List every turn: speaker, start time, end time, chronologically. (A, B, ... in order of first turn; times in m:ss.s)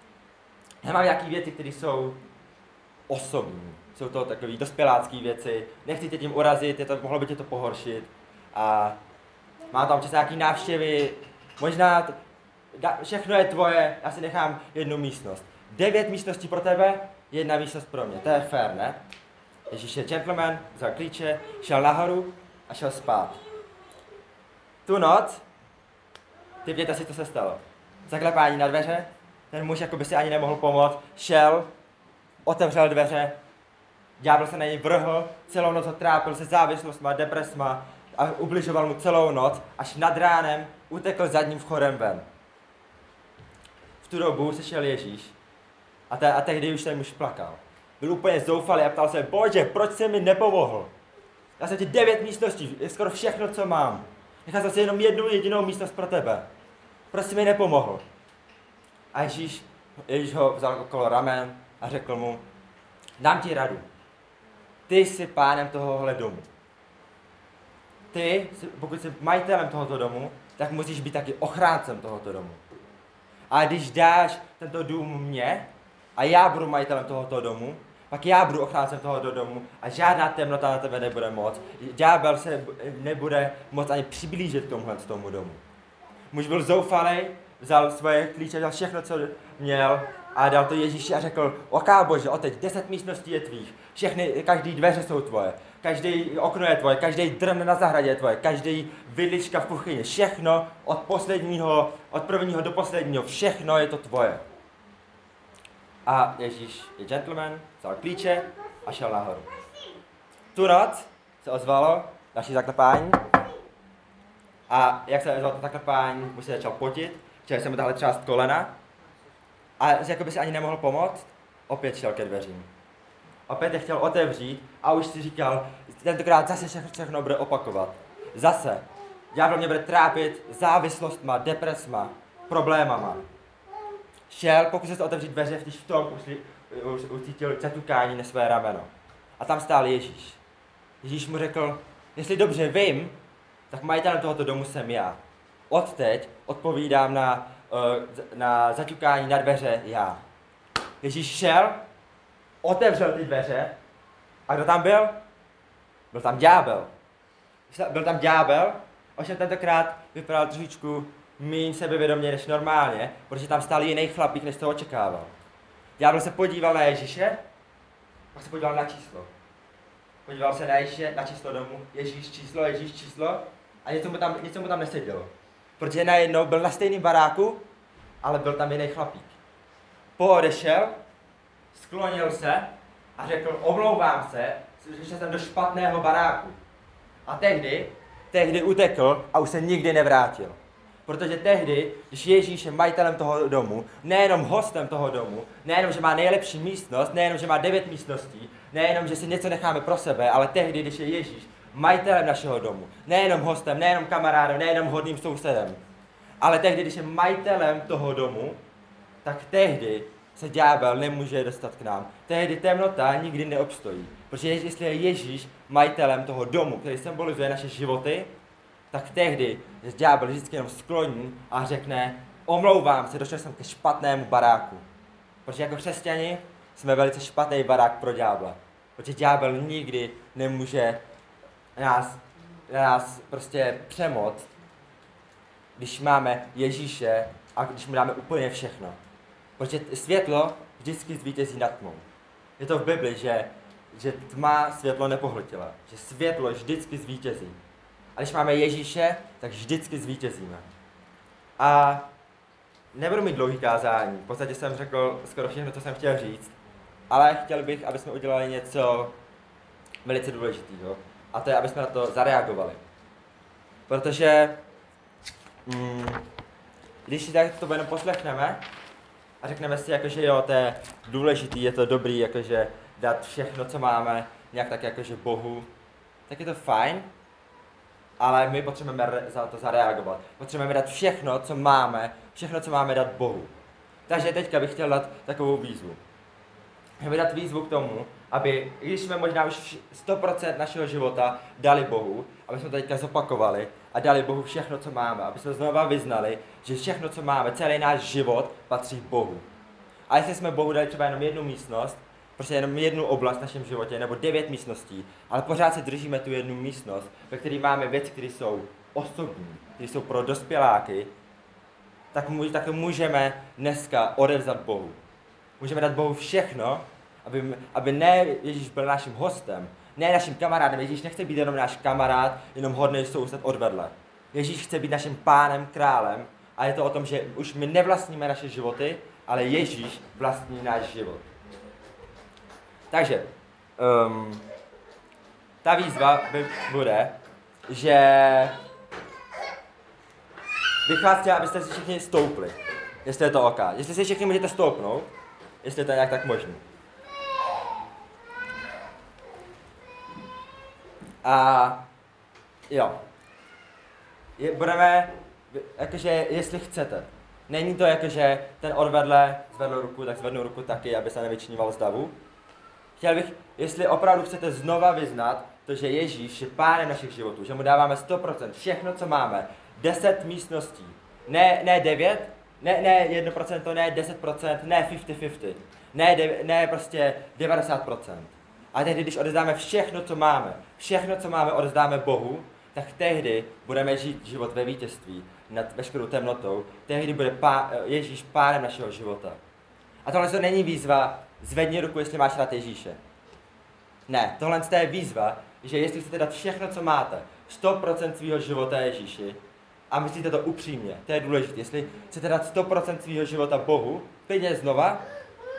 0:00.8-0:02.2 A
0:03.1-0:09.0 A
0:09.7-0:12.2 A
0:12.7-0:19.0 A
0:19.7-0:23.4 A
0:24.8-0:25.4 A
0:26.6-0:31.7 A
0:32.4-0:33.4 A
0:34.2-0:42.2 A
0:44.0-0:45.3 A
0:46.1-0:50.9 A
0:51.6-0:56.5 A
0:57.1-0:58.0 A
0:59.1-1:02.4 A
1:03.2-1:03.8 A
1:04.9-1:06.5 A
1:08.1-1:12.6 A
1:13.5-1:25.6 A
1:26.3-1:44.4 A
1:46.0-1:49.5 A
1:50.5-1:53.3 A
1:54.7-1:58.7 A
1:59.8-2:02.7 A
2:03.5-2:13.2 A
2:14.3-2:20.4 A
2:21.0-2:23.1 A
2:23.7-2:25.2 A
2:25.7-2:30.2 A
2:31.0-2:31.8 A
2:32.6-2:33.8 A
2:34.5-2:35.2 A
2:36.1-2:36.9 A
2:37.7-2:45.3 A
2:46.0-2:47.4 A
2:48.3-2:49.3 A
2:50.2-2:57.6 A
2:58.2-2:59.3 A
3:00.2-3:01.0 A
3:01.7-3:06.6 A
3:07.2-3:25.8 A
3:26.4-3:28.6 A
3:29.2-3:38.3 A
3:38.9-3:44.8 A
3:45.4-3:51.0 A
3:51.8-3:54.5 A
3:55.8-3:59.0 A
3:59.6-4:02.0 A
4:02.6-4:07.6 A
4:08.2-4:10.6 A
4:11.6-4:12.1 A
4:12.9-4:16.5 A
4:17.1-4:19.1 A
4:20.0-4:22.8 A
4:23.9-4:24.6 A
4:25.6-4:26.2 A
4:27.0-4:28.6 A
4:29.4-4:35.7 A
4:36.3-4:37.1 A
4:38.2-4:43.5 A
4:44.1-4:46.0 A
4:47.0-4:59.4 A
5:00.1-5:11.1 A
5:12.1-5:15.0 A
5:15.6-5:31.3 A
5:32.9-5:34.4 A
5:35.6-5:37.2 A
5:37.7-5:38.6 A
5:40.8-5:45.1 A
5:45.6-5:46.6 A
5:51.2-5:51.8 A
5:52.7-5:53.0 A
5:54.4-6:02.1 A
6:03.0-6:29.4 A
6:30.0-6:33.0 A
6:34.1-6:39.4 A
6:39.9-6:45.0 A